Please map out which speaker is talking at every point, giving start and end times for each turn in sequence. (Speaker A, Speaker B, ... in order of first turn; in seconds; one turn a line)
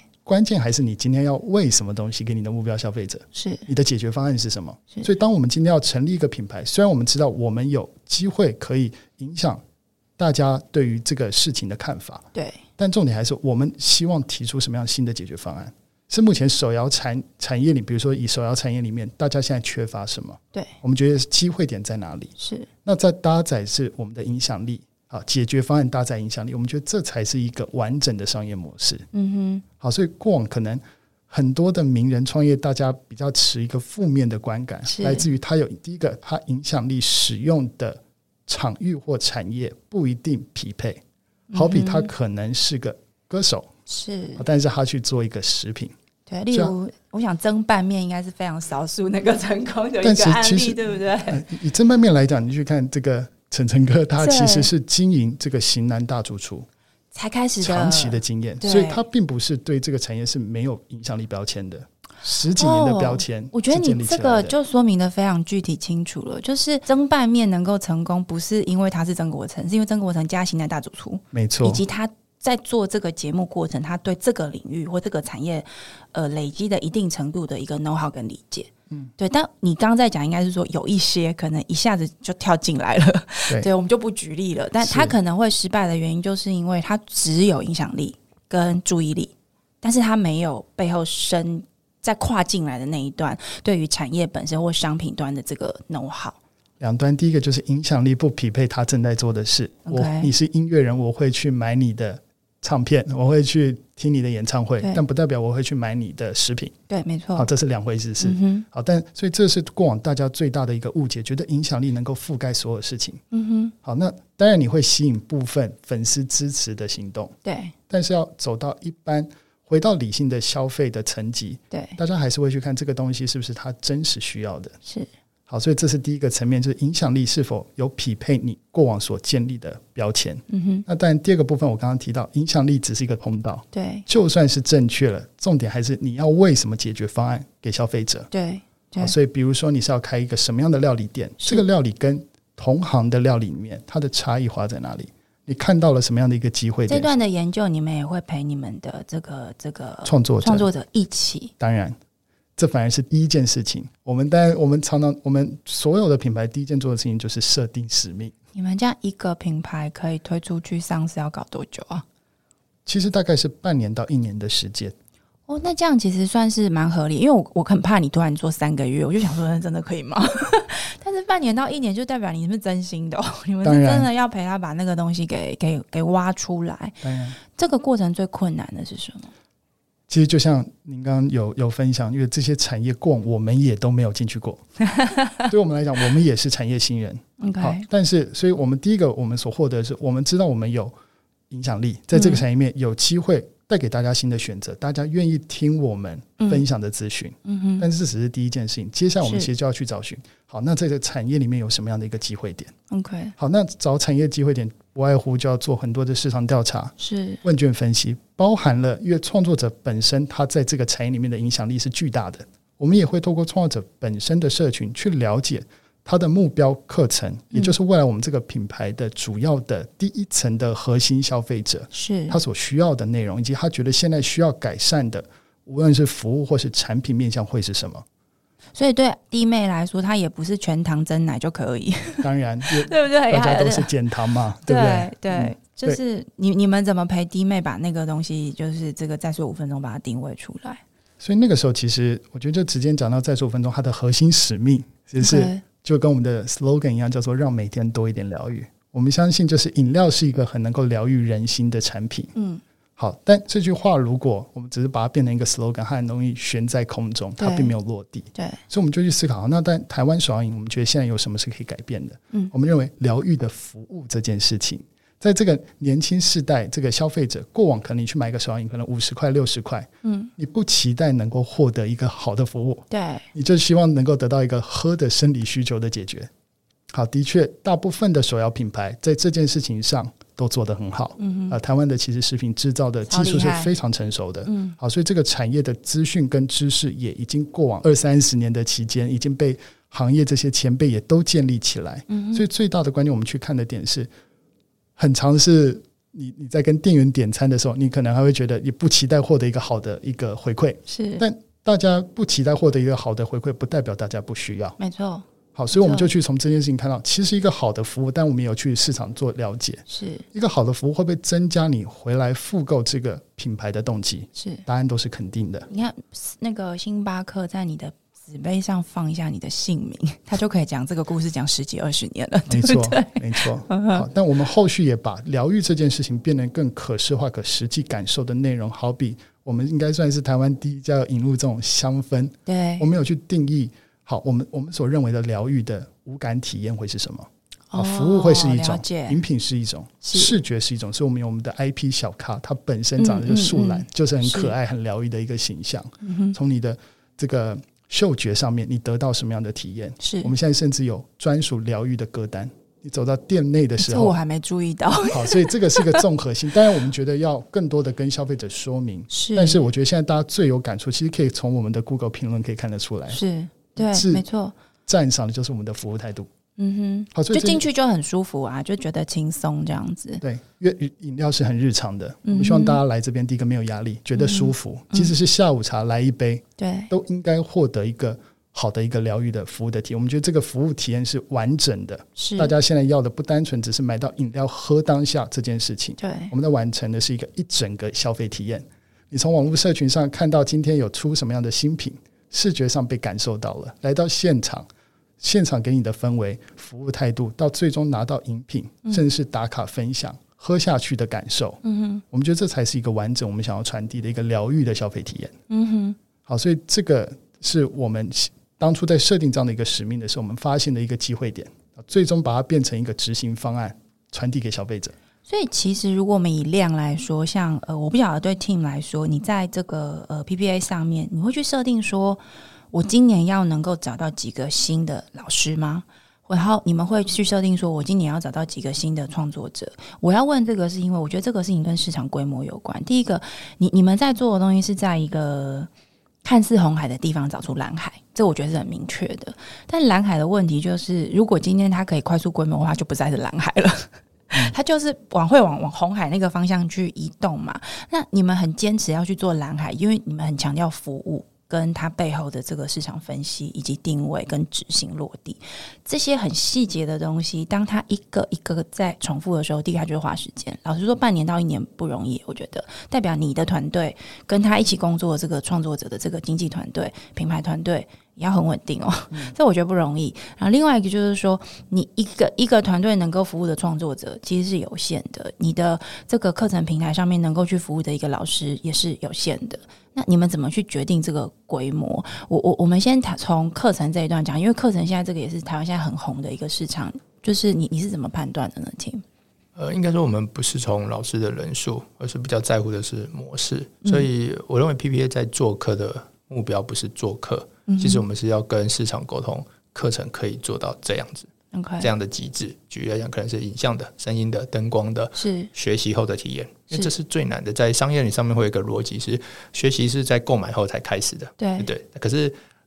Speaker A: 0.3-9.6
Speaker B: 3.3-3.7
Speaker A: 10.2-12.3
Speaker B: 12.3-12.6
Speaker A: 12.8-22.3
Speaker B: 22.4-22.7
Speaker A: 22.9-29.1
Speaker B: 29.1-29.6
Speaker A: 29.8-41.0
Speaker B: 34.9-35.3
Speaker B: 41.5-42.1
Speaker A: 41.5-43.7
Speaker B: 43.9-44.4
Speaker A: 44.4-45.9
Speaker B: 46.3-51.5
Speaker A: 50.0-56.7
Speaker B: 54.2-54.7
Speaker B: 57.1-59.0
Speaker A: 57.6-64.5
Speaker B: 62.6-96.4
Speaker A: 71.3-71.8
Speaker A: 84.8-85.2
Speaker A: 96.8-106.8
Speaker B: 99.9-100.3
Speaker B: 106.9-107.5
Speaker A: 107.3-113.2
Speaker B: 108.2-108.7
Speaker B: 113.3-113.7
Speaker A: 113.8-117.3
Speaker B: 117.4-117.7
Speaker A: 117.9-124.8
Speaker B: 121.7-122.0
Speaker A: 125.5-138.3
Speaker B: 130.5-130.9
Speaker B: 133.7-134.1
Speaker B: 138.3-139.2
Speaker A: 139.0-147.1
Speaker B: 146.9-151.5
Speaker A: 150.0-150.7
Speaker A: 151.6-152.0
Speaker A: 152.6-158.3
Speaker B: 158.5-162.1
Speaker A: 162.9-164.9
Speaker B: 165.5-179.3
Speaker A: 173.6-174.1
Speaker A: 177.0-177.4
Speaker A: 180.1-184.6
Speaker B: 184.8-185.5
Speaker A: 185.4-190.9
Speaker B: 187.4-187.8
Speaker A: 191.5-202.7
Speaker B: 192.1-192.4
Speaker B: 197.4-197.9
Speaker B: 199.2-199.5
Speaker B: 202.9-203.3
Speaker A: 203.4-228.0
Speaker B: 207.0-207.4
Speaker B: 221.9-222.4
Speaker B: 228.8-233.9
Speaker A: 232.2-236.0
Speaker B: 234.7-240.8
Speaker A: 241.2-252.3
Speaker B: 245.2-245.6
Speaker B: 252.3-252.6
Speaker A: 253.0-276.3
Speaker B: 257.4-257.7
Speaker B: 258.4-258.6
Speaker B: 270.0-270.3
Speaker B: 272.9-273.3
Speaker A: 276.9-294.1
Speaker B: 281.2-281.6
Speaker B: 283.1-283.8
Speaker B: 284.5-284.8
Speaker B: 292.1-292.4
Speaker A: 295.0-304.8
Speaker B: 300.9-301.2
Speaker B: 304.8-306.1
Speaker A: 305.6-315.7
Speaker B: 309.9-310.2
Speaker B: 314.4-314.6
Speaker B: 315.7-324.1
Speaker A: 322.5-354.2
Speaker B: 332.5-332.9
Speaker B: 337.7-339.2
Speaker B: 340.0-340.4
Speaker B: 343.0-344.5
Speaker B: 346.0-346.4
Speaker B: 350.0-350.3
Speaker B: 353.8-356.0
Speaker A: 355.1-363.2
Speaker B: 359.1-359.6
Speaker B: 363.1-364.6
Speaker A: 363.8-364.2
Speaker A: 364.9-366.3
Speaker B: 366.6-370.2
Speaker A: 367.1-367.7
Speaker A: 370.2-394.7
Speaker B: 372.2-372.8
Speaker B: 374.2-375.1
Speaker B: 376.6-376.9
Speaker B: 382.2-382.5
Speaker B: 386.0-386.3
Speaker A: 395.2-401.6
Speaker B: 401.6-402.0
Speaker A: 402.1-405.3
Speaker B: 405.5-406.0
Speaker A: 406.3-414.9
Speaker B: 415.3-435.7
Speaker B: 436.2-489.0
Speaker C: 489.6-512.4
Speaker B: 497.7-498.0
Speaker B: 501.5-501.9
Speaker B: 505.1-505.5
Speaker B: 511.4-511.7